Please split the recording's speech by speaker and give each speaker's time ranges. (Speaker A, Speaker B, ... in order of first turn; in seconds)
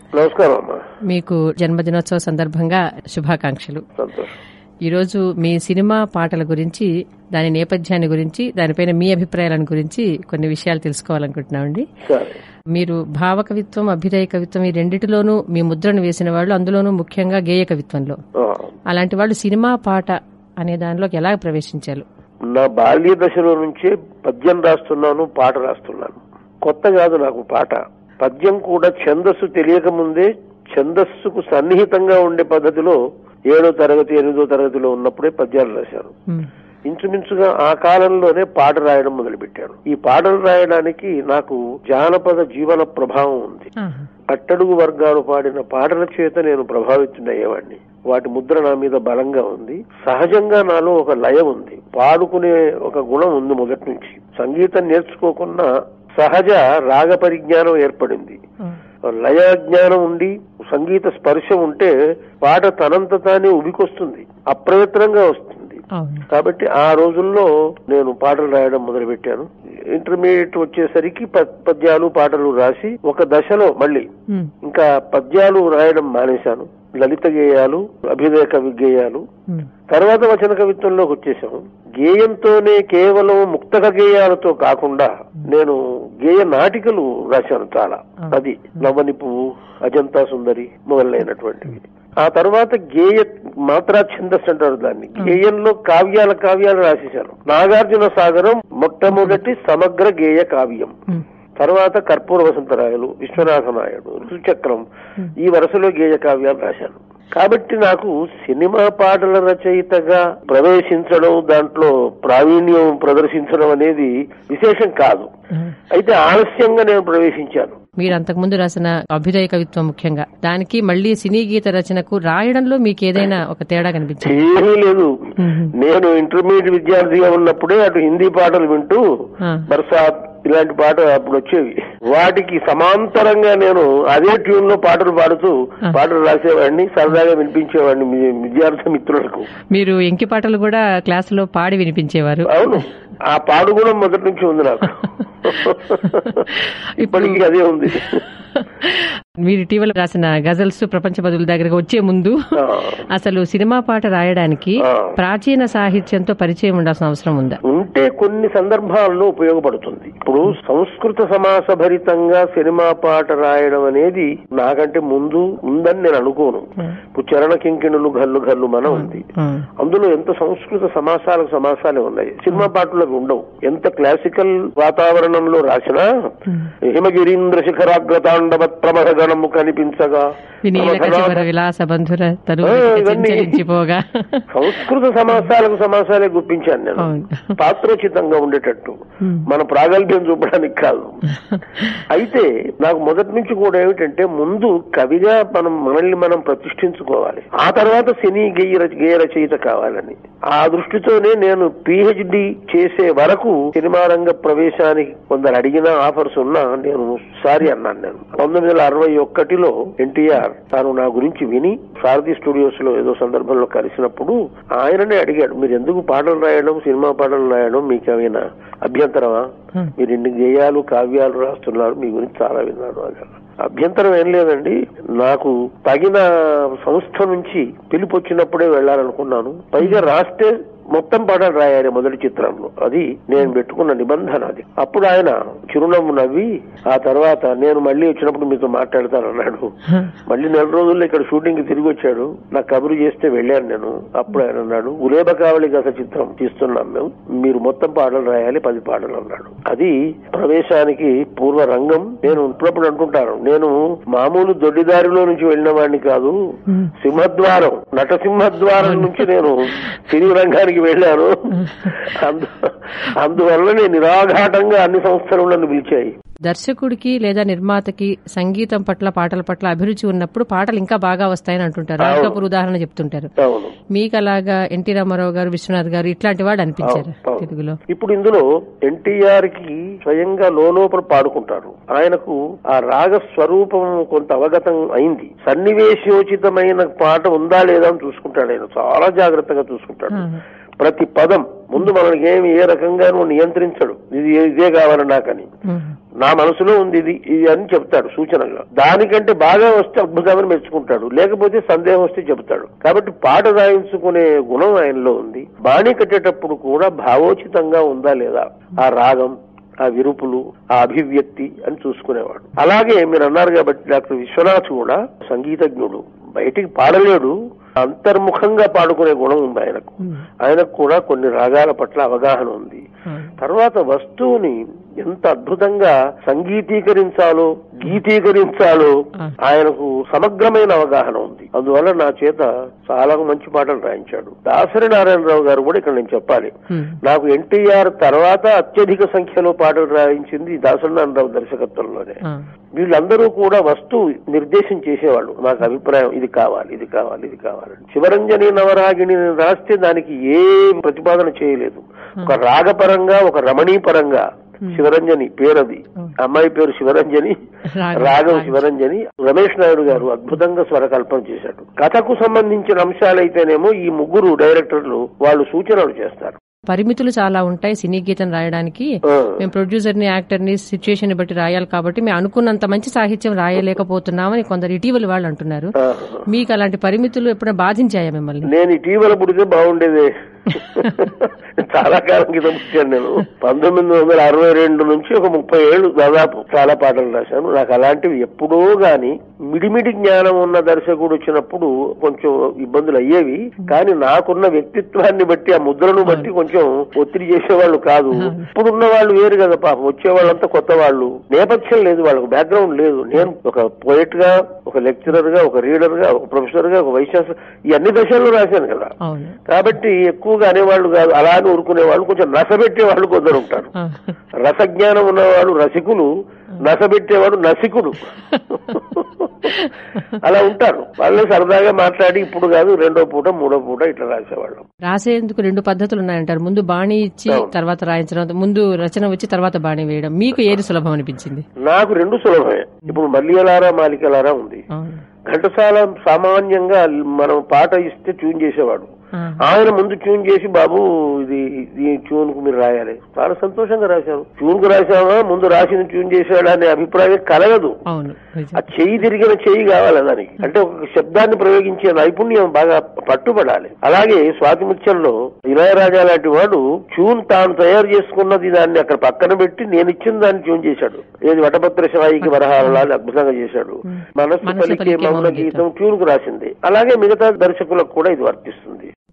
Speaker A: 0.1-0.8, 4.0-4.3, 12.1-12.3, 18.4-18.7, 22.5-33.0, 33.5-36.1, 36.9-43.7, 44.3-58.4, 59.2-74.1, 74.6-79.2, 79.9-100.9, 101.6-104.8, 105.4-115.3, 115.9-117.8, 124.2-125.1, 125.8-129.0, 129.7-139.5, 142.5-146.4, 147.0-148.1, 152.6-153.0, 154.8-155.1, 157.7-169.2, 169.8-176.1, 176.8-181.5, 182.6-183.6, 184.5-191.2, 192.1-219.4, 220.0-226.2, 226.8-239.7, 240.3-256.3, 257.0-261.3, 262.0-266.1, 272.0-272.4, 273.4-273.7, 276.8-290.2, 290.8-295.5, 296.2-322.8, 323.4-342.2, 342.8-357.4, 358.0-366.4, 369.1-369.4, 375.8-376.2, 378.5-408.9, 409.5-413.7, 414.4-416.1, 416.6-418.0, 418.8-419.5, 420.2-424.7, 431.6-434.6, 435.3-438.9, 439.4-447.8, 448.6-468.9
Speaker B: 1.1-3.8, 4.8-11.8, 12.7-18.2, 18.9-22.0, 43.8-44.0, 65.9-66.2, 118.0-124.4, 125.4-125.7, 139.7-142.8, 145.6-152.3, 153.2-157.6, 168.9-169.7, 180.6-184.4, 187.0-187.5, 189.2-189.5, 191.3-191.9, 258.8-259.3, 261.6-261.9, 266.4-273.3, 273.9-277.8, 290.1-290.4, 295.7-295.9, 323.1-323.3, 336.7-337.0, 357.7-358.6, 366.7-368.9, 369.4-375.7, 376.3-378.5, 396.1-396.3, 398.2-398.5, 409.0-409.4, 413.8-414.1, 418.3-419.7, 424.9-431.4, 434.7-435.0, 447.9-448.7, 462.2-462.8, 463.9-465.6